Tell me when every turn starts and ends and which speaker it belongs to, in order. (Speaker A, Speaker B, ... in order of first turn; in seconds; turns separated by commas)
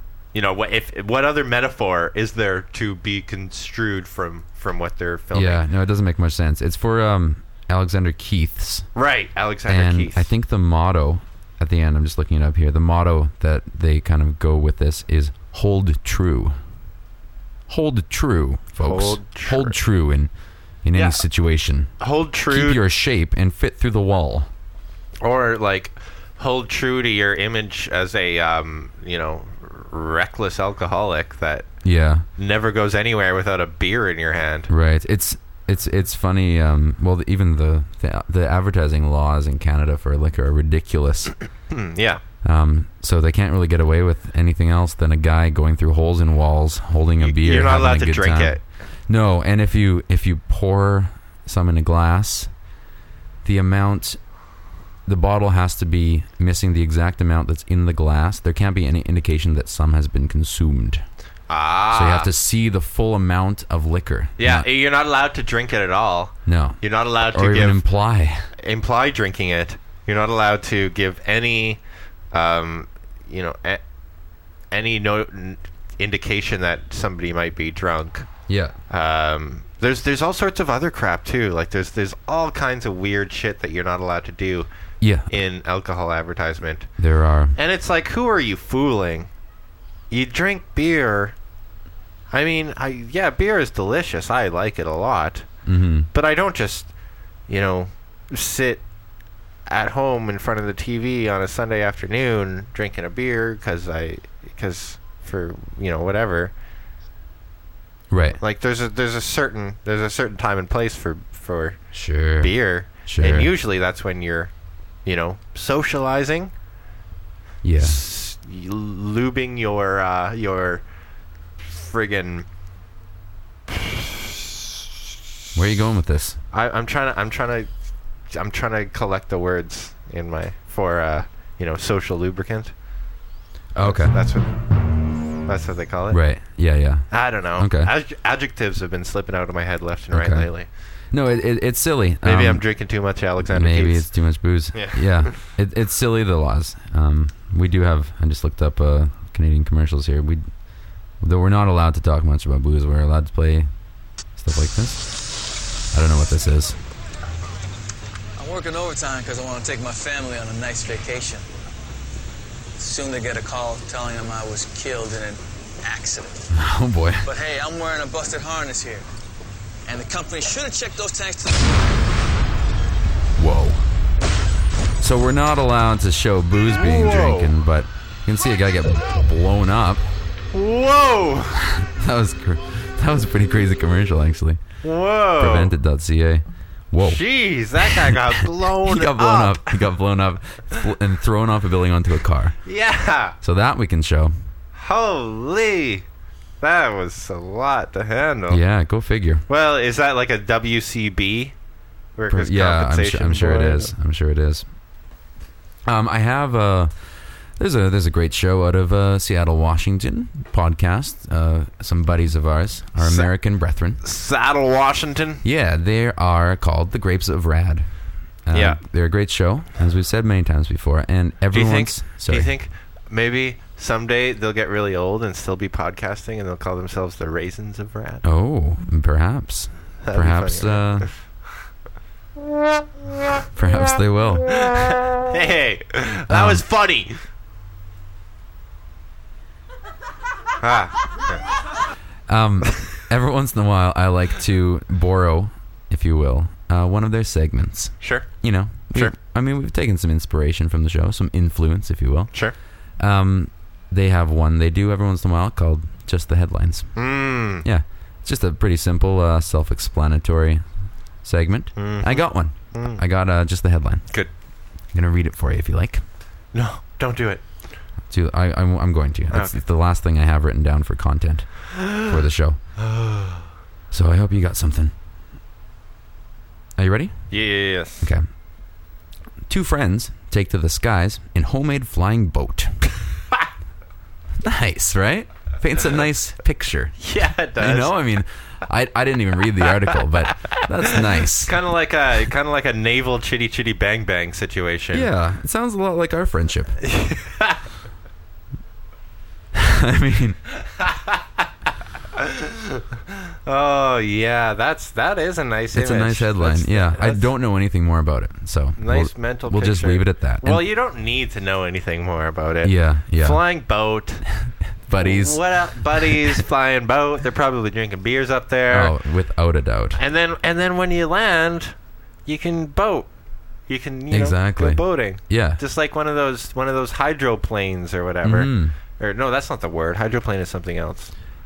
Speaker A: 0.3-5.6, Speaker B: 5.3-8.9, Speaker A: 8.9-10.3, Speaker B: 9.7-16.6, Speaker B: 17.7-20.3, Speaker A: 18.8-19.8, Speaker B: 20.8-21.9, Speaker A: 20.9-21.2, Speaker A: 22.0-22.8, Speaker B: 22.4-24.5, Speaker A: 25.2-31.7, Speaker B: 31.8-32.2, Speaker A: 32.4-34.7, Speaker B: 34.7-41.3, Speaker A: 41.7-42.2, Speaker B: 42.4-52.5, Speaker A: 47.2-48.6, Speaker B: 53.4-54.2, Speaker B: 55.0-61.0, Speaker A: 61.5-62.3, Speaker B: 61.9-64.7, Speaker A: 64.4-67.8, Speaker B: 66.5-68.5, Speaker A: 68.6-71.8, Speaker A: 72.3-73.8, Speaker A: 74.7-78.3, Speaker B: 78.5-78.8, Speaker A: 78.9-84.7, Speaker B: 85.0-85.3, Speaker A: 85.3-86.9, Speaker B: 87.0-87.6, Speaker A: 87.5-89.3, Speaker A: 90.1-91.3, Speaker A: 92.3-95.5, Speaker B: 95.6-96.1, Speaker A: 96.1-96.9, Speaker A: 97.5-98.8, Speaker A: 99.7-106.5, Speaker B: 108.1-108.4, Speaker A: 108.4-114.5, Speaker B: 111.9-113.5, Speaker A: 115.0-116.5, Speaker B: 117.6-118.0, Speaker A: 117.8-120.8, Speaker A: 121.6-122.4, Speaker A: 123.7-124.5, Speaker B: 125.5-126.4, Speaker A: 126.5-127.7, Speaker A: 128.3-132.7, Speaker B: 133.7-134.1, Speaker A: 133.8-134.5, Speaker A: 135.4-136.2, Speaker B: 136.1-137.9, Speaker A: 137.1-140.7, Speaker B: 140.1-140.5, Speaker B: 141.1-150.5, Speaker A: 142.2-145.4, Speaker B: 151.2-153.7, Speaker B: 154.3-156.8, Speaker C: 158.4-161.5, Speaker C: 162.8-166.5, Speaker B: 166.5-167.3, Speaker C: 167.2-169.1, Speaker C: 169.8-171.7, Speaker B: 173.3-173.8, Speaker B: 175.0-180.0, Speaker A: 176.7-177.5, Speaker A: 180.5-181.6, Speaker B: 181.7-184.6, Speaker A: 184.8-185.7, Speaker B: 185.4-192.6, Speaker A: 187.0-189.8, Speaker A: 192.6-193.4, Speaker B: 193.4-194.3, Speaker A: 194.7-196.0, Speaker A: 196.6-198.6, Speaker B: 198.5-199.4, Speaker A: 199.5-201.5, Speaker A: 202.2-203.9, Speaker B: 202.3-204.6, Speaker B: 205.8-214.0, Speaker A: 213.0-213.3, Speaker A: 214.0-215.4, Speaker B: 215.4-217.9, Speaker B: 218.4-222.5, Speaker A: 218.5-218.8, Speaker A: 221.5-228.2, Speaker B: 228.2-231.1, Speaker A: 230.0-231.1, Speaker B: 233.5-234.8, Speaker A: 234.6-237.2, Speaker B: 236.3-236.6, Speaker A: 240.6-241.4, Speaker B: 242.3-257.0, Speaker A: 248.0-249.2, Speaker A: 256.9-257.6, Speaker B: 257.6-260.6, Speaker B: 261.2-264.1, Speaker A: 261.8-263.0, Speaker B: 264.9-266.0, Speaker A: 266.5-267.4, Speaker B: 268.1-272.6, Speaker A: 269.3-269.6, Speaker A: 271.8-272.2, Speaker A: 272.8-273.4, Speaker B: 273.9-274.9, Speaker B: 276.8-277.3, Speaker A: 277.3-278.1, Speaker B: 279.5-282.7, Speaker B: 284.4-291.6, Speaker A: 287.0-288.0, Speaker A: 290.4-295.1, Speaker B: 294.9-296.8, Speaker A: 296.8-297.6, Speaker B: 299.5-300.4, Speaker A: 300.9-301.1, Speaker A: 302.2-302.8, Speaker A: 303.4-307.3, Speaker B: 305.7-310.6, Speaker A: 308.8-314.3, Speaker B: 312.6-313.4, Speaker B: 314.4-316.3, Speaker A: 315.0-318.9, Speaker B: 318.7-320.0, Speaker A: 319.9-321.7, Speaker A: 322.2-323.1, Speaker A: 323.7-331.1, Speaker B: 324.1-325.6, Speaker B: 328.2-328.8